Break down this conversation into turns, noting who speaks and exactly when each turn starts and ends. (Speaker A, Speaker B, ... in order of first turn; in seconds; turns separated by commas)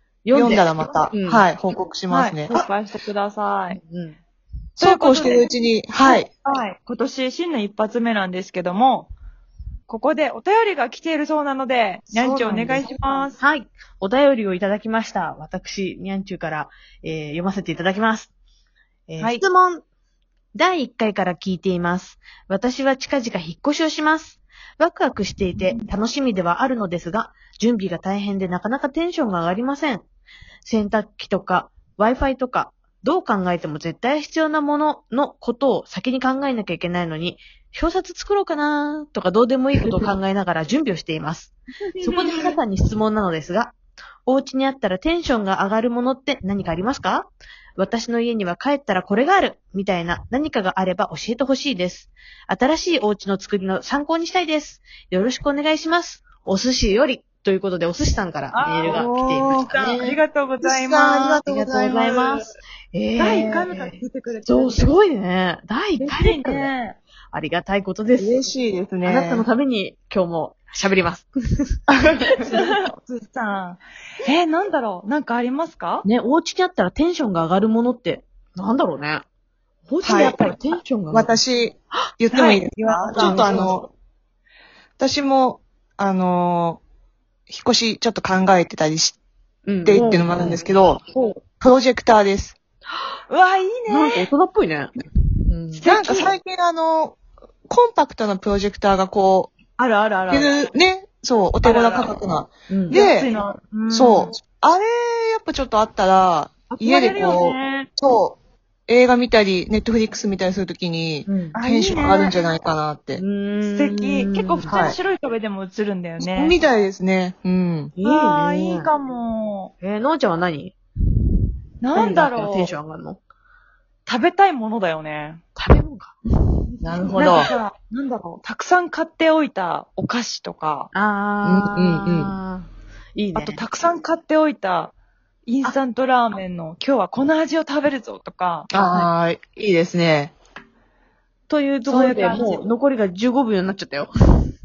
Speaker A: 0.2-1.5, Speaker B: 0.3-2.6, Speaker C: 2.1-3.8, Speaker A: 3.7-4.2, Speaker C: 4.8-5.5, Speaker B: 4.8-6.3, Speaker C: 6.0-9.1, Speaker C: 9.9-13.4, Speaker A: 12.1-18.3, Speaker A: 19.1-19.8, Speaker A: 20.5-30.0, Speaker C: 25.6-25.9, Speaker A: 30.6-60.2, Speaker C: 41.9-42.6, Speaker C: 58.5-61.4, Speaker B: 58.8-59.7, Speaker B: 60.6-62.4, Speaker A: 61.5-66.7, Speaker C: 63.2-64.9, Speaker B: 63.3-63.6, Speaker C: 66.0-67.0, Speaker A: 67.3-68.5, Speaker B: 68.2-69.5, Speaker A: 69.0-71.7, Speaker B: 72.0-72.3, Speaker C: 72.5-76.0, Speaker A: 76.0-79.2, Speaker A: 79.9-81.4, Speaker B: 80.0-80.6, Speaker B: 81.1-83.9, Speaker C: 82.3-83.7, Speaker A: 83.1-83.7, Speaker B: 85.0-86.8, Speaker B: 87.5-89.2, Speaker A: 89.7-90.7, Speaker B: 89.8-91.0, Speaker C: 91.1-91.4, Speaker B: 91.6-92.5, Speaker C: 93.3-94.3, Speaker A: 93.9-94.9, Speaker A: 95.5-95.8, Speaker C: 95.8-96.3, Speaker B: 95.8-97.2, Speaker B: 97.7-99.5, Speaker C: 99.8-100.6, Speaker B: 100.3-103.3, Speaker C: 101.6-102.2, Speaker A: 102.7-103.0, Speaker C: 102.9-104.4, Speaker B: 103.9-113.2, Speaker A: 106.7-107.4, Speaker C: 106.8-107.9, Speaker A: 111.2-111.6, Speaker C: 111.5-112.5, Speaker A: 113.2-114.8, Speaker C: 113.7-116.6, Speaker B: 114.7-115.0, Speaker B: 116.2-117.9, Speaker A: 118.0-118.9, Speaker C: 118.0-119.7, Speaker A: 119.8-120.8, Speaker C: 121.8-122.7, Speaker A: 121.9-123.2, Speaker C: 124.0-125.4, Speaker A: 125.5-126.1, Speaker B: 126.8-127.5, Speaker C: 127.2-130.9, Speaker A: 130.9-133.6, Speaker B: 131.4-132.3, Speaker C: 133.3-134.9, Speaker C: 135.5-138.7, Speaker B: 138.7-140.3, Speaker A: 138.8-139.1, Speaker A: 141.5-144.1, Speaker C: 141.8-142.7